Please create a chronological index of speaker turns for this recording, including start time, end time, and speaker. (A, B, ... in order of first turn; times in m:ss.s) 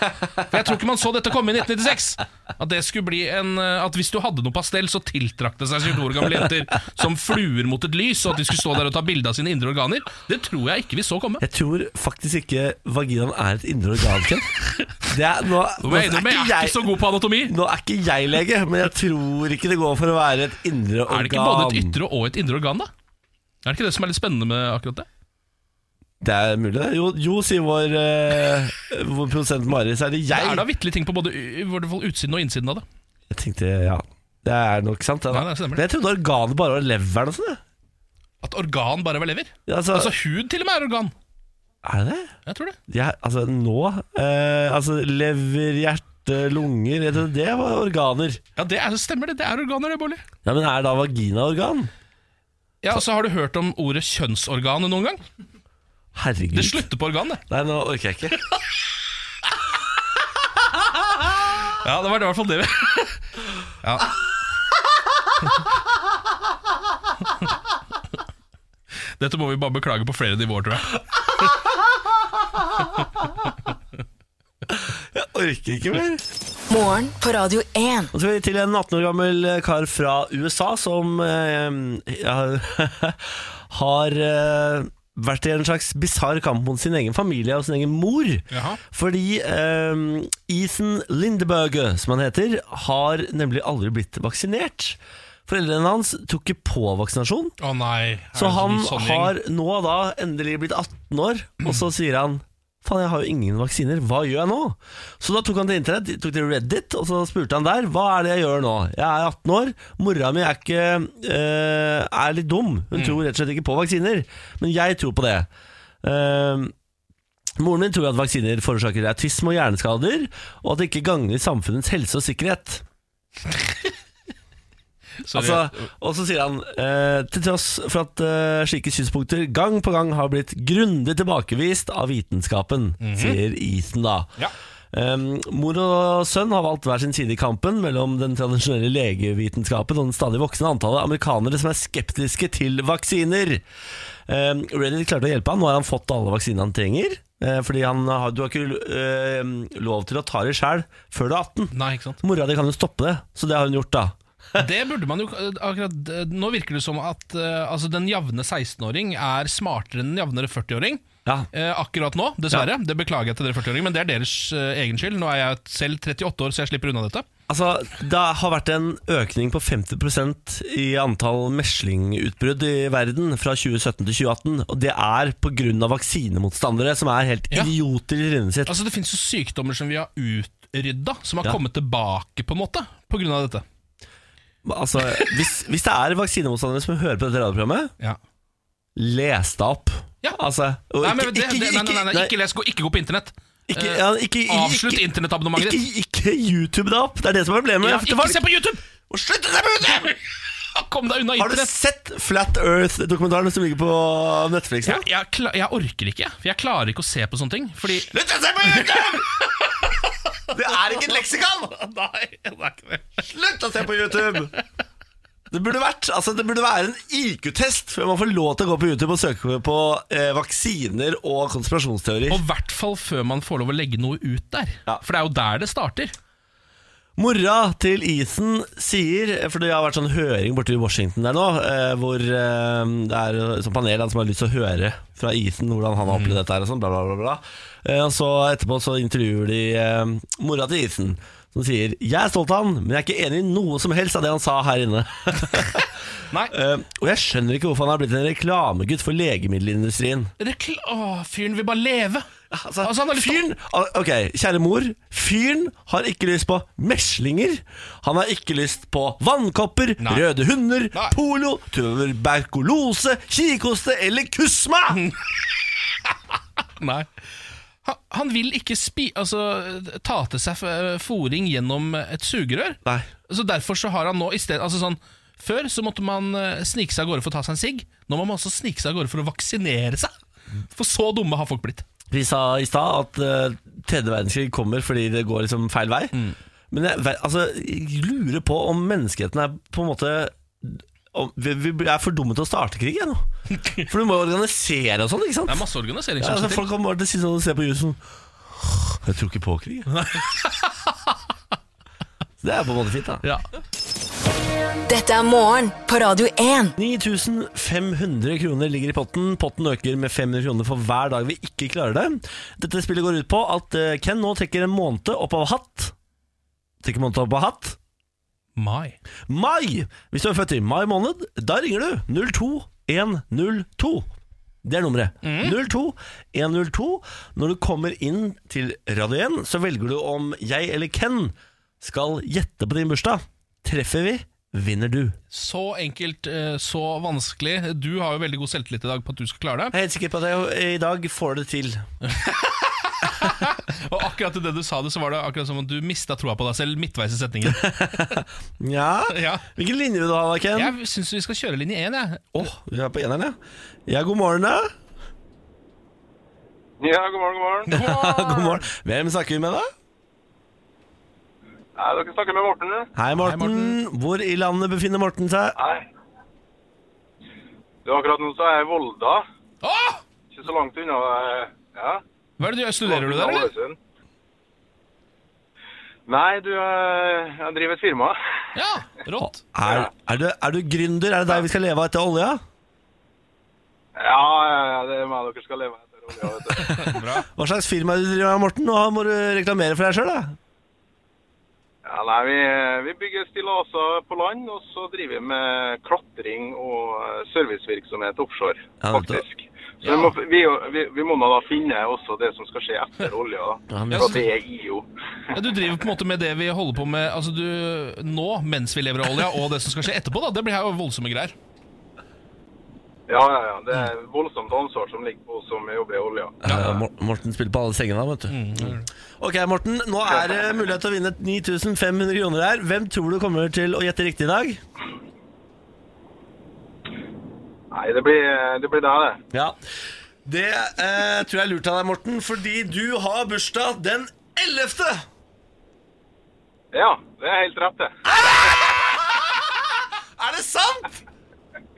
0:00.4-0:11.4 A
0:11.4-0:22.0 B
0:15.8-0:17.5 A
0:21.1-0:22.9 A
0:23.6-0:25.1 A
0:26.2-0:30.6 B
0:30.3-0:32.8 A
0:33.3-0:37.6 B
0:35.3-0:35.8 A
0:38.4-0:41.1 A
0:39.7-0:40.1 B
0:41.8-0:42.3 B
0:42.4-0:42.8 A
0:42.9-0:48.4 B
0:48.6-0:50.2 A
0:50.4-0:51.9 B
0:52.8-0:55.2 A
0:56.1-0:56.9 B
0:56.5-0:57.4 A
0:57.5-0:58.4 B
1:01.6-1:03.3 A
1:03.8-1:04.2 A
1:09.2-1:10.9 A
1:14.7-1:16.2 B
1:16.7-1:18.1 C
1:18.1-1:37.6 B
1:28.5-1:28.8 A
1:37.6-1:39.4 A
1:38.4-1:55.5 B
1:52.9-1:53.2 A
1:56.0-1:56.7 B
1:57.6-2:02.8 B
2:05.2-2:05.8 A
2:05.3-2:14.3 B
2:13.0-2:13.4 A
2:14.9-2:23.6 B
2:24.3-2:34.6 B
2:31.7-2:32.2 A
2:34.6-2:47.2 A
2:47.5-2:58.8 B
2:58.6-3:03.6 A
3:04.6-3:07.9 B
3:05.1-3:05.4 A
3:09.0-3:12.3 B
3:11.0-3:15.8 A
3:13.7-3:18.4 B
3:17.8-3:18.8 A
3:19.1-3:20.1 B
3:19.9-3:20.2 A
3:20.7-3:21.7 A
3:21.4-3:25.1 B
3:24.8-3:28.1 A
3:28.0-3:29.4 B
3:28.6-3:30.0 A
3:30.5-3:31.7 B
3:30.6-3:31.2 A
3:31.7-3:33.2 A
3:33.2-3:34.5 B
3:34.1-3:34.6 A
3:35.5-3:42.4 B
3:42.3-3:46.1 A
3:47.2-4:05.9 B
3:56.1-3:56.4 A
4:06.5-4:10.3 B
4:10.4-4:12.3 A
4:12.5-4:25.1 B
4:12.8-4:13.5 A
4:20.0-4:20.2 A
4:24.9-4:27.1 A
4:27.8-4:40.1 A
4:40.7-4:41.8 A
4:42.1-4:46.2 B
4:46.7-4:55.6 B
4:53.5-4:53.8 A
4:55.4-4:56.7 A
4:56.2-4:58.0 B
4:58.9-4:59.9 B
4:59.9-5:01.1 A
5:02.4-5:03.2 B
5:04.9-5:06.7 C
5:06.8-5:15.9 B
5:16.8-5:17.8 B
5:18.6-5:19.0 A
5:19.3-5:24.1 B
5:24.6-5:35.2 B
5:25.2-5:25.6 A
5:35.3-5:39.7 A
5:39.7-5:41.8 B
5:42.0-5:48.2 A
5:47.4-5:50.7 B
5:49.1-5:49.4 A
5:50.5-5:52.5 A
5:52.4-5:53.4 B
5:53.9-5:54.7 B
5:56.8-5:57.7 D
5:57.7-5:58.6 A
5:57.7-5:59.7 B
6:01.8-6:02.9 D
6:02.9-6:05.6 B
6:03.2-6:03.8 A
6:05.6-6:05.9 D
6:07.8-6:09.2 D
6:09.6-6:10.0 A
6:10.3-6:12.0 D
6:12.4-6:13.5 A
6:12.8-6:13.8 D
6:16.1-6:18.2 D
6:18.5-6:19.4 A
6:19.2-6:22.4 B
6:24.0-6:27.1 D
6:26.8-6:30.4 B
6:26.8-6:27.2 A
6:31.9-6:44.9 D
6:38.8-6:39.2 B
6:39.8-6:40.1 A
6:43.7-6:44.2 B
6:45.3-6:51.4 A
6:53.1-6:56.4 D
6:56.4-7:04.6 B
6:58.3-6:58.9 A
7:07.7-7:09.2 D
7:10.2-7:15.1 B
7:16.7-7:18.0 D
7:18.1-7:19.4 B
7:20.2-7:21.0 B